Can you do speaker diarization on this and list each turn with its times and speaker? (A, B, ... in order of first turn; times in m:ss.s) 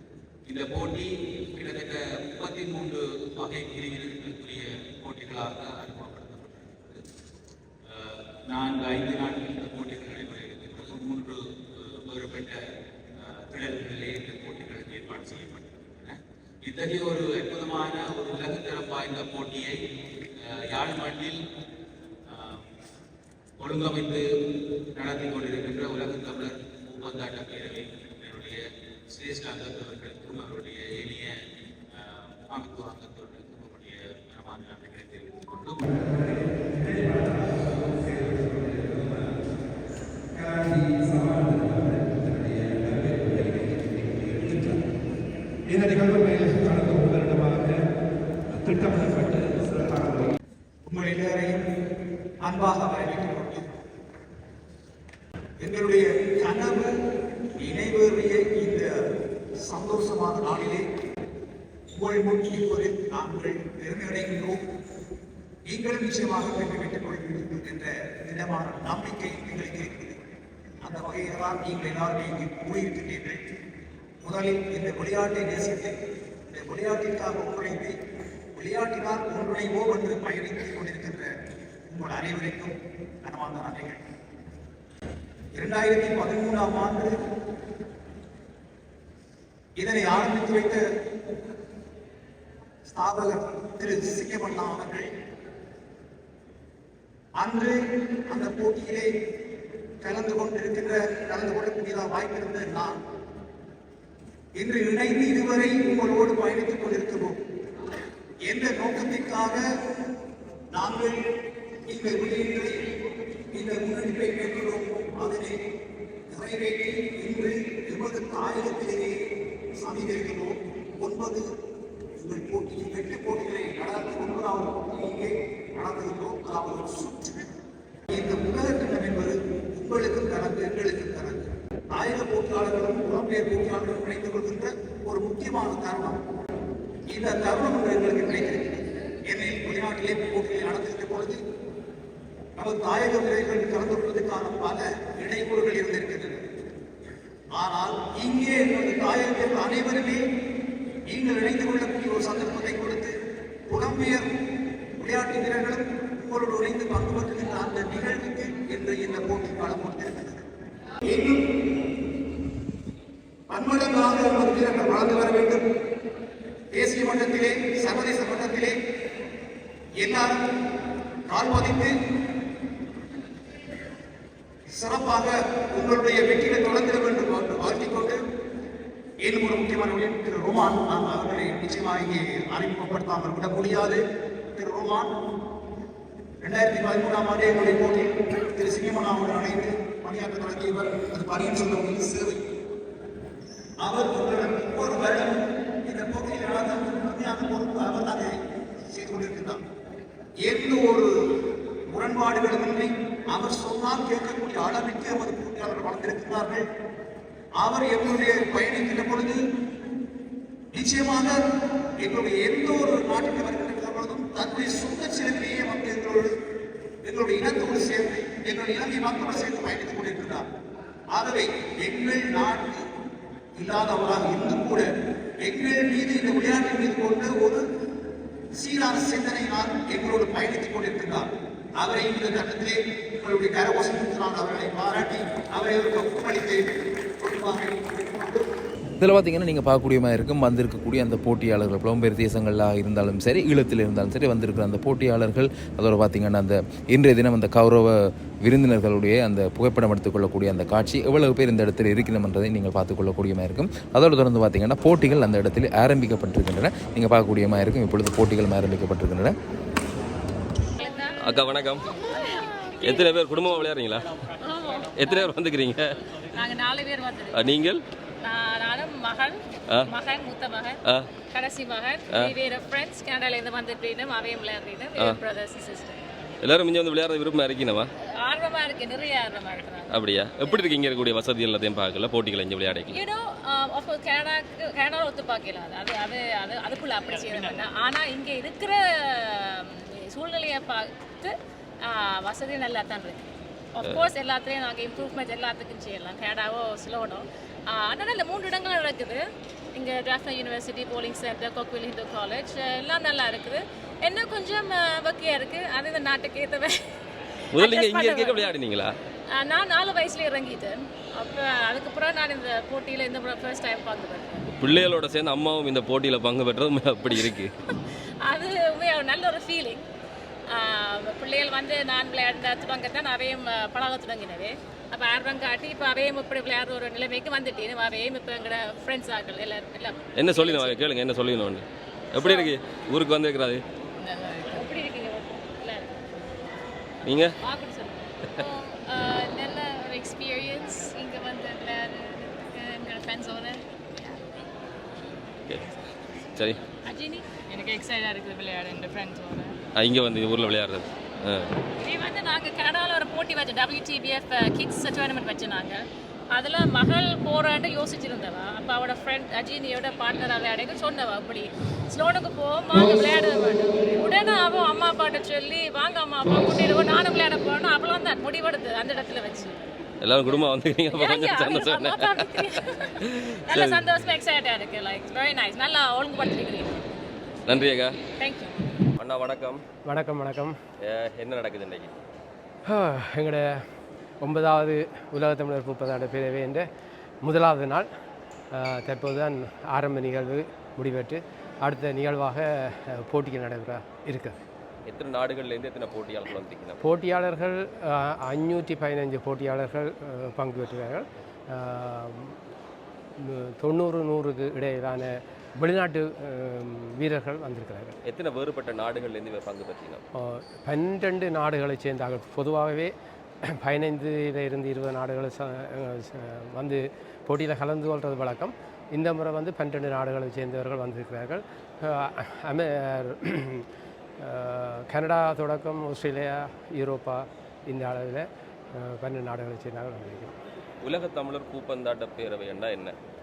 0:00.5-0:07.0 A
0:07.9-0:12.6 A
0:13.2-0:19.8 A
0:20.4-0:21.4 A
0:22.3-0:22.6 A
0:23.6-0:24.3 A
0:25.0-0:36.9 A
0:37.6-0:38.0 A
0:50.8-0:51.7 B
0:52.4-0:53.7 B
0:55.6-0:56.9 B
0:57.6-1:00.9 B
1:01.9-1:04.6 B
1:05.7-1:10.2 B
1:10.8-1:13.4 B
1:14.2-1:18.0 B
1:18.6-1:21.3 B
1:21.9-1:24.0 B
1:25.5-1:27.2 B
1:29.8-1:30.8 B
1:32.9-1:35.1 B
1:37.4-1:37.7 B
1:38.3-1:39.1 B
1:40.0-1:43.0 B
1:44.6-1:47.4 B
1:48.5-1:49.6 B
1:50.7-1:51.3 B
1:51.9-1:52.8 B
1:53.5-1:55.6 B
1:56.3-2:01.4 B
2:02.2-2:07.5 B
2:08.1-2:16.2 B
2:17.1-2:21.4 B
2:22.6-2:26.5 B
2:27.6-2:30.2 B
2:31.1-2:33.1 B
2:33.7-2:34.4 B
2:35.0-2:40.4 B
2:41.0-2:41.5 B
2:43.5-2:45.6 B
2:46.7-2:48.8 B
2:50.0-2:50.4 B
2:51.3-2:51.9 B
2:54.7-2:58.2 B
2:59.2-3:04.0 B
3:04.6-3:05.3 B
3:06.4-3:12.4 B
3:13.8-3:18.3 B
3:18.9-3:19.6 B
3:20.4-3:21.1 B
3:21.9-3:26.6 B
3:27.6-3:29.4 B
3:30.7-3:31.4 B
3:32.0-3:36.3 B
3:37.0-3:40.5 B
3:41.1-3:42.8 B
3:43.6-3:44.9 B
3:45.4-3:47.6 B
3:48.6-3:58.4 B
3:59.0-4:19.3 C
4:20.8-4:21.4 D
4:21.2-4:21.9 E
4:22.1-4:23.0 D
4:22.8-4:24.1 E
4:24.4-4:25.3 D
4:25.0-4:26.0 E
4:26.4-4:27.6 D
4:27.4-4:27.8 E
4:28.2-4:30.8 D
4:31.3-4:36.0 D
4:36.4-4:37.9 E
4:38.2-4:40.0 D
4:39.9-4:43.0 E
4:42.9-4:59.2 D
4:59.8-5:06.8 D
5:07.6-5:08.9 E
5:07.6-5:08.5 D
5:09.3-5:14.5 D
5:14.5-5:17.5 E
5:18.3-5:19.8 D
5:20.5-5:30.8 D
5:30.2-5:33.6 E
5:32.2-5:32.5 D
5:34.0-5:36.0 D
5:37.1-5:37.3 E
5:37.4-5:44.2 D
5:45.5-5:45.7 E
5:46.8-5:49.5 D
5:49.8-5:51.5 E
5:51.8-6:09.6 D
6:10.0-6:12.3 E
6:10.9-6:16.8 D
6:13.5-6:13.8 E
6:17.5-6:18.0 E
6:18.2-6:18.7 D
6:19.0-6:19.6 E
6:19.9-6:20.5 F
6:20.8-6:21.9 E
6:22.7-6:23.6 F
6:24.2-6:26.7 F
6:27.2-6:27.9 F
6:28.5-6:34.4 F
6:34.9-6:36.8 E
6:36.8-6:42.4 F
6:43.2-6:48.0 F
6:48.1-6:50.0 E
6:50.2-6:52.9 F
6:53.6-7:03.6 F
7:04.2-7:10.4 F
7:10.8-7:13.0 E